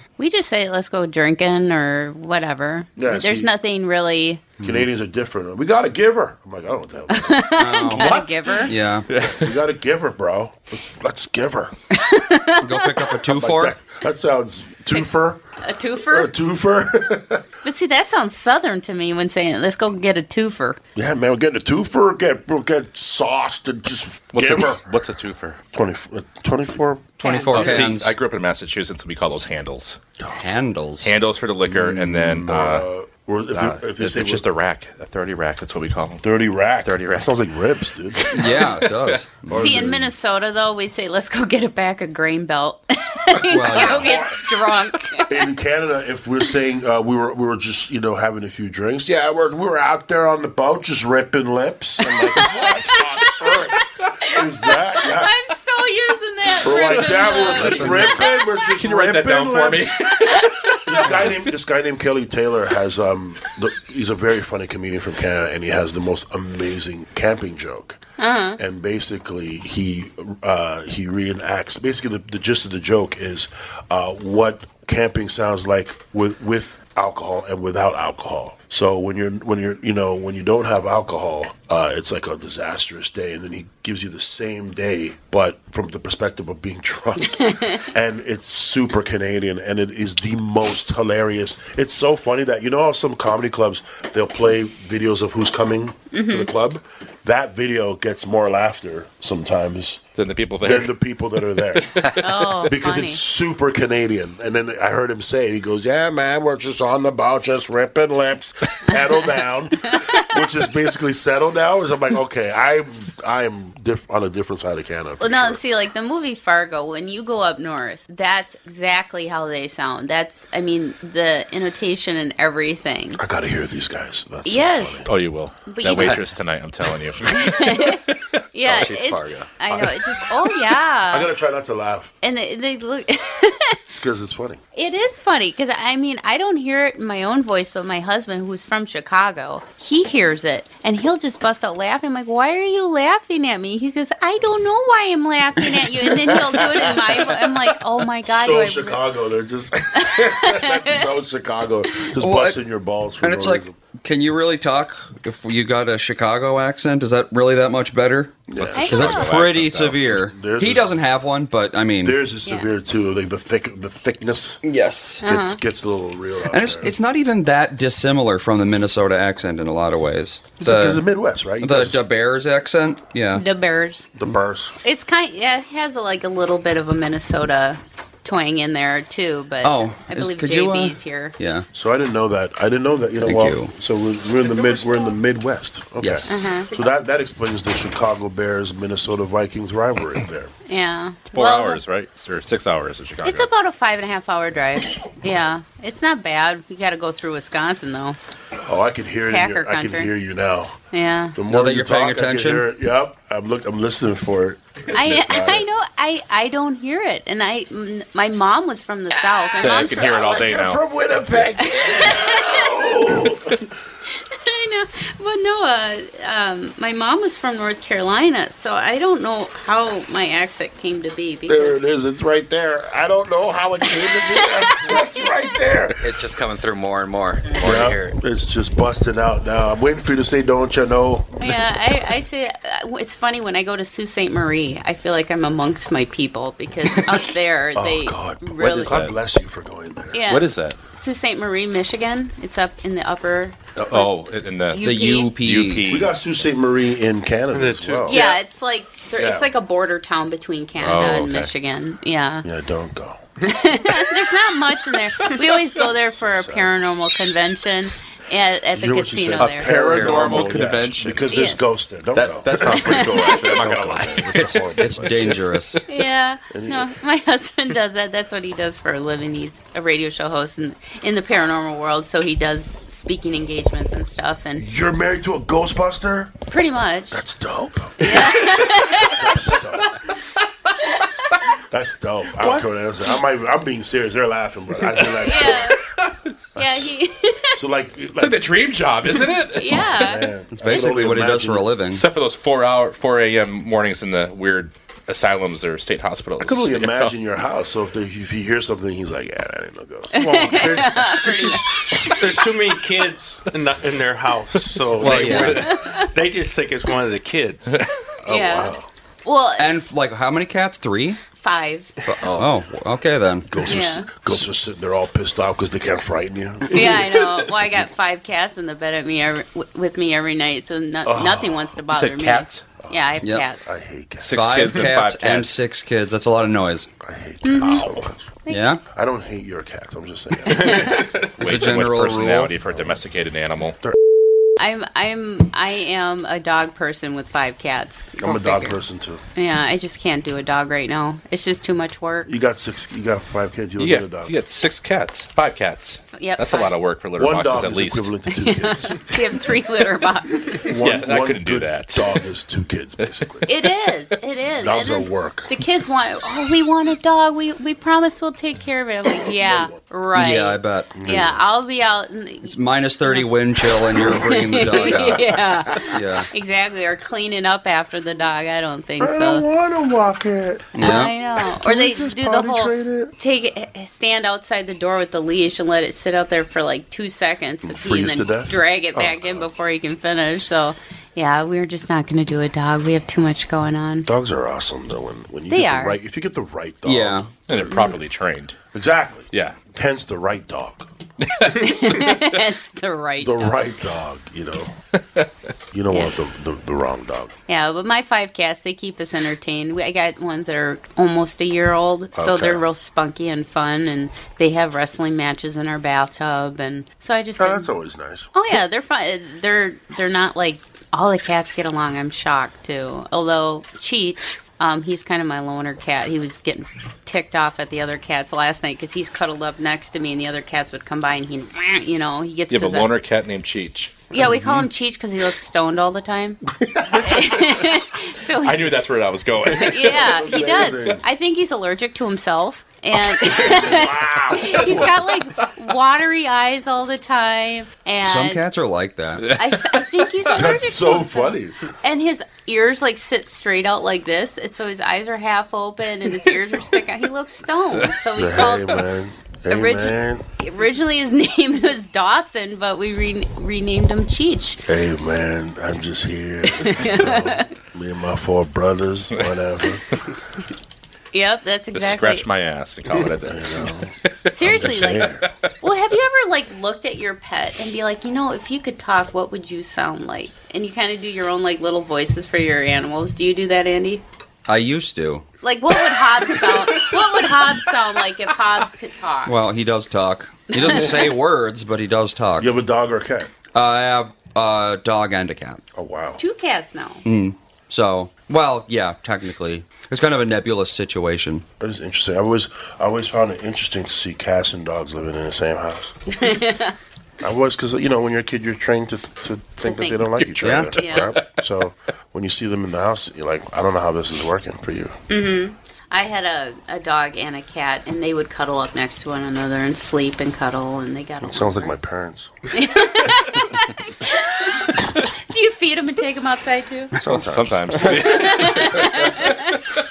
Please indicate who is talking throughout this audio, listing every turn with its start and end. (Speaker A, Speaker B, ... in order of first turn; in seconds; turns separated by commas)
Speaker A: 0.2-4.5, Speaker B: 3.0-3.5, Speaker C: 4.6-4.9, Speaker B: 4.6-7.7, Speaker A: 7.1-8.7, Speaker C: 7.6-9.1, Speaker D: 7.9-8.6, Speaker D: 9.1-9.5, Speaker B: 9.2-11.7, Speaker A: 11.9-13.2, Speaker C: 12.6-13.8, Speaker B: 13.3-15.4, Speaker A: 15.6-16.3, Speaker B: 16.1-17.4, Speaker A: 17.6-20.8, Speaker B: 21.0-24.8, Speaker D: 24.3-25.6, Speaker B: 25.7-27.1, Speaker C: 27.2-28.1, Speaker A: 27.2-27.5, Speaker D: 27.5-30.0, Speaker C: 30.3-31.1, Speaker D: 31.0-32.9, Speaker C: 31.7-32.5, Speaker B: 32.3-34.4, Speaker D: 33.5-36.2, Speaker B: 36.2-38.3, Speaker D: 36.8-37.3, Speaker C: 38.3-39.7, Speaker B: 39.5-40.1, Speaker A: 39.5-45.4, Speaker C: 43.5-44.3, Speaker B: 43.8-44.1, Speaker B: 45.3-53.8, Speaker A: 52.2-53.7, Speaker B: 54.3-55.3, Speaker A: 54.3-58.6, Speaker B: 56.6-59.9, Speaker D: 56.9-58.1, Speaker C: 57.5-58.2, Speaker D: 58.7-61.4, Speaker B: 60.9-68.0, Speaker A: 68.2-68.6, Speaker B: 68.6-100.0, Speaker A: 87.5-87.8, Speaker A: 96.1-96.5, Speaker D: 100.2-101.0, Speaker B: 100.6-101.9, Speaker D: 101.6-102.5, Speaker A: 102.2-103.2, Speaker B: 102.7-115.6, Speaker A: 109.9-110.2, Speaker A: 115.2-123.2, Speaker B: 123.2-125.1, Speaker A: 124.5-125.1, Speaker D: 125.1-128.2, Speaker A: 125.7-126.2, Speaker A: 127.3-128.0, Speaker A: 128.5-131.3, Speaker E: 128.7-129.5, Speaker B: 131.1-132.1, Speaker A: 132.2-133.8, Speaker B: 134.0-134.6, Speaker A: 134.8-149.0, Speaker B: 146.2-147.2, Speaker B: 148.2-153.8, Speaker A: 150.0-151.0, Speaker C: 152.2-152.6, Speaker C: 153.2-162.2, Speaker B: 158.5-161.0, Speaker E: 158.6-159.4, Speaker A: 158.8-159.4, Speaker B: 162.0-164.6, Speaker C: 164.6-165.2, Speaker A: 165.2-165.6, Speaker B: 165.2-166.9, Speaker C: 166.5-171.0, Speaker B: 170.6-172.0, Speaker C: 171.6-173.4, Speaker A: 173.3-174.1, Speaker B: 174.2-174.8, Speaker A: 174.8-181.3, Speaker C: 179.6-181.7, Speaker B: 181.7-190.5, Speaker C: 183.2-183.7, Speaker C: 186.0-186.5, Speaker A: 186.3-186.7, Speaker A: 190.7-191.8, Speaker D: 191.3-193.5, Speaker A: 193.2-198.2, Speaker B: 198.7-200.8, Speaker A: 199.3-200.1, Speaker A: 200.9-201.4, Speaker B: 201.3-205.7, Speaker C: 201.5-202.7, Speaker A: 204.9-210.6, Speaker B: 209.6-213.7, Speaker D: 209.6-210.8, Speaker A: 211.8-212.9, Speaker A: 214.2-221.8, Speaker B: 221.5-226.0, Speaker A: 224.1-225.0, Speaker E: 225.9-228.2, Speaker B: 227.5-231.3, Speaker A: 231.4-238.9, Speaker B: 237.8-240.2, Speaker D: 238.6-239.2, Speaker A: 240.1-244.1, Speaker D: 240.3-240.8, Speaker D: 243.8-244.8, Speaker A: 244.7-245.3, Speaker C: 244.8-245.9, Speaker D: 245.4-246.2, Speaker B: 245.9-248.3, Speaker F: 247.5-248.4, Speaker A: 248.1-252.5, Speaker B: 249.1-249.5, Speaker D: 250.8-251.5, Speaker B: 252.4-253.3, Speaker A: 253.4-259.8, Speaker B: 256.1-256.7, Speaker B: 258.7-265.5, Speaker D: 259.4-261.2, Speaker C: 259.8-260.6, Speaker A: 261.3-261.6, Speaker D: 262.1-264.6, Speaker A: 262.9-263.3, Speaker C: 264.4-265.8, Speaker A: 265.9-274.6, Speaker B: 266.5-266.9, Speaker B: 274.6-276.4, Speaker A: 276.5-277.2, Speaker B: 277.1-280.0, Speaker A: 278.0-279.4, Speaker B: 281.7-285.7, Speaker A: 285.2-285.8, Speaker A: 286.6-287.6, Speaker B: 287.5-288.5, Speaker D: 288.2-289.9, Speaker A: 289.5-290.3, Speaker B: 289.6-291.7, Speaker C: 290.6-292.0, Speaker D: 291.9-297.1, Speaker B: 296.4-300.7, Speaker A: 300.1-302.2, Speaker F: 300.2-301.6, Speaker F: 302.1-307.8, Speaker C: 305.0-305.7, Speaker A: 305.6-306.1, Speaker B: 308.2-308.9, Speaker A: 308.3-308.7, Speaker A: 309.2-309.7, Speaker C: 309.6-311.2, Speaker A: 311.4-311.9, Speaker C: 312.1-314.4, Speaker E: 312.2-312.5, Speaker B: 313.5-317.0, Speaker A: 313.7-314.1, Speaker A: 316.7-323.6, Speaker B: 321.1-321.8, Speaker D: 321.9-322.6, Speaker B: 323.6-324.4, Speaker D: 324.2-325.6, Speaker C: 324.3-326.9, Speaker B: 327.0-328.3, Speaker A: 327.4-327.9, Speaker A: 328.4-328.7, Speaker C: 328.5-328.8, Speaker B: 328.9-331.2, Speaker A: 330.5-331.1, Speaker C: 331.4-332.5, Speaker D: 331.4-333.8, Speaker B: 332.7-333.0, Speaker A: 334.6-338.8, Speaker B: 338.2-339.2, Speaker A: 339.4-342.3, Speaker B: 342.3-344.4, Speaker D: 343.8-348.1, Speaker A: 346.1-346.7, Speaker B: 347.2-349.0, Speaker A: 348.3-350.6, Speaker B: 350.6-353.5, Speaker D: 350.8-352.1, Speaker A: 353.5-363.3, Speaker B: 354.6-355.6, Speaker B: 359.1-359.8, Speaker C: 360.1-360.9, Speaker B: 360.9-361.4, Speaker C: 362.5-366.3, Speaker A: 363.9-369.5, Speaker B: 364.0-365.8, Speaker B: 369.0-373.1, Speaker C: 370.8-371.1, Speaker A: 370.8-384.1, Speaker B: 377.6-379.5, Speaker B: 384.1-387.3, Speaker A: 385.5-386.0, Speaker C: 386.9-387.3, Speaker D: 387.5-388.6, Speaker B: 388.7-390.9, Speaker D: 389.3-389.6, Speaker D: 391.3-391.5, Speaker A: 391.5-393.6, Speaker B: 393.2-394.8, Speaker B: 395.7-397.3, Speaker A: 397.5-407.7, Speaker B: 402.1-402.6, Speaker B: 407.4-408.3, Speaker A: 408.3-422.9, Speaker D: 422.5-424.7, Speaker A: 424.1-426.4, Speaker A: 426.9-428.7, Speaker D: 428.4-430.0, Speaker A: 429.5-438.4, Speaker B: 429.6-431.0, Speaker B: 433.3-434.9, Speaker C: 438.0-439.3, Speaker A: 439.3-448.8, Speaker B: 440.3-441.6, Speaker B: 448.1-450.3, Speaker A: 449.5-454.6, Speaker B: 454.7-460.0, Speaker A: 456.5-457.5, Speaker A: 461.1-462.2, Speaker D: 461.7-463.7, Speaker B: 463.3-465.3, Speaker A: 464.3-474.0, Speaker D: 464.5-465.2, Speaker C: 474.5-475.2, Speaker A: 475.4-479.3, Speaker C: 479.2-482.6, Speaker A: 480.5-481.1, Speaker B: 482.4-483.3, Speaker C: 483.5-485.6, Speaker B: 485.8-486.2, Speaker A: 486.2-487.0, Speaker C: 487.1-491.5, Speaker B: 491.6-495.9, Speaker A: 496.1-496.8, Speaker B: 497.2-504.9, Speaker A: 499.6-500.0, Speaker D: 500.2-501.4, Speaker C: 500.4-500.7, Speaker A: 500.8-501.1, Speaker A: 505.1-511.7, Speaker B: 511.2-512.3, Speaker A: 512.5-517.0, Speaker B: 517.0-519.0, Speaker D: 517.0-519.0, Speaker A: 517.9-519.4